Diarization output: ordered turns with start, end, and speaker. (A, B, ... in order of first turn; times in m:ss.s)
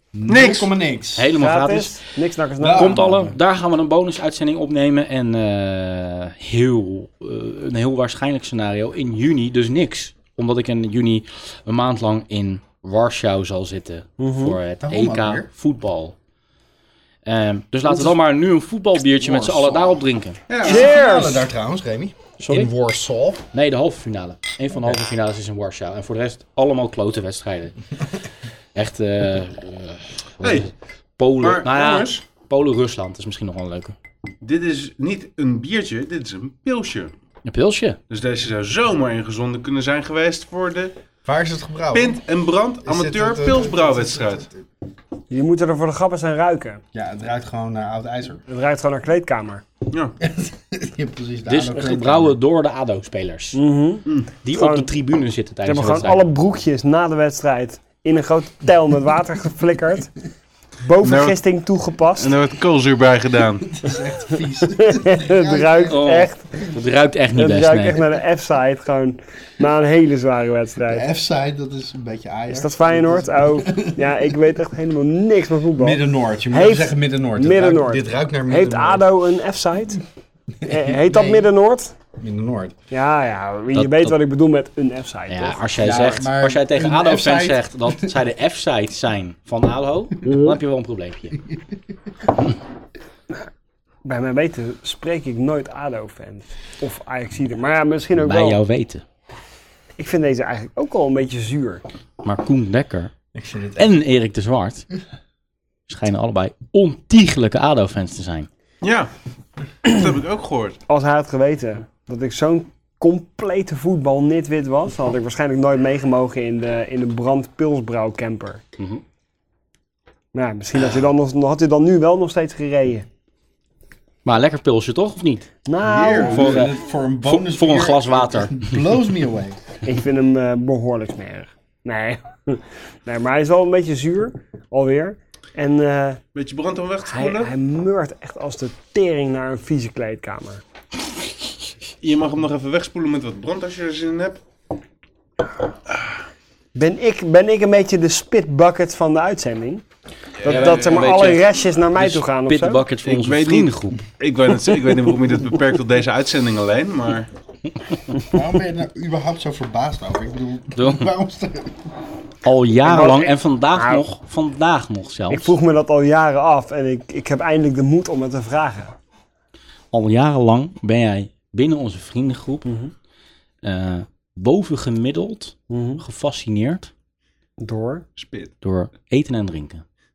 0:00.1-0:01.3 A
0:00.3-0:00.7 B
0:01.2-0:02.0 C
0:01.3-0:03.1 D
0:02.6-0:03.4 A
0:02.7-0:16.2 C
0:14.2-0:14.6 D
0:14.8-0:15.5 A
0:17.2-0:20.4 C
0:19.2-0:20.0 A
0:20.5-0:20.9 B
0:20.6-0:23.5 A
0:20.6-0:21.5 D
0:22.4-0:22.7 C
0:23.5-0:27.8 C
0:28.7-0:34.0 C
0:30.4-0:30.7 B
0:31.4-0:32.2 B
0:34.4-0:37.1 B
0:37.4-0:38.0 C
0:38.1-0:41.0 B
0:41.2-0:42.2 A
0:41.9-0:44.4 B
0:42.8-0:44.6 A
0:45.3-0:46.8 D
0:46.9-0:48.4 A
0:48.5-0:49.6 D
0:50.2-0:52.4 A
0:51.5-0:53.6 C
0:53.5-0:54.9 D
0:54.4-0:56.2 C
0:55.6-1:00.1 D
1:00.8-1:02.4 D
1:01.0-1:01.4 B
1:02.1-1:03.7 B
1:03.7-1:06.3 A
1:04.8-1:06.7 D
1:05.9-1:08.0 C
1:07.4-1:11.0 D
1:10.8-1:14.3 A
1:12.5-1:20.0 D
1:15.8-1:19.1 A
1:20.6-1:21.5 A
1:20.6-1:21.9 D
1:22.2-1:22.7 A
1:22.9-1:25.6 D
1:23.7-1:24.1 C
1:25.3-1:31.4 C
1:25.8-1:28.1 A
1:34.0-1:38.6 D
1:38.2-1:39.0 C
1:40.0-1:41.8 D
1:42.2-1:43.1 C
1:43.3-1:43.9 A
1:43.8-1:44.8 C
1:45.9-1:48.5 C
1:48.8-1:49.1 B
1:49.8-1:50.8 B
1:50.9-1:58.6 D
1:58.8-1:59.0 C
2:00.3-2:03.0 D
2:00.7-2:01.0 C
2:04.2-2:05.5 C
2:05.6-2:06.6 D
2:05.8-2:06.5 B
2:06.1-2:09.6 A
2:06.2-2:08.7 C
2:09.8-2:16.2 D
2:16.3-2:17.5 B
2:17.0-2:20.6 D
2:22.0-2:24.4 B
2:26.7-2:29.8 D
2:30.4-2:31.2 B
2:30.4-2:32.8 D
2:30.4-2:34.0 C
2:33.0-2:37.3 B
2:38.2-2:41.9 A
2:40.7-2:41.1 C
2:42.4-2:45.5 C
2:42.8-2:44.0 D
2:45.3-2:48.9 D
2:49.9-2:52.7 C
2:52.6-2:52.9 D
2:53.6-2:56.9 C
2:55.7-2:56.0 D
2:57.6-2:58.0 D
2:58.2-2:58.5 B
2:58.6-2:59.8 C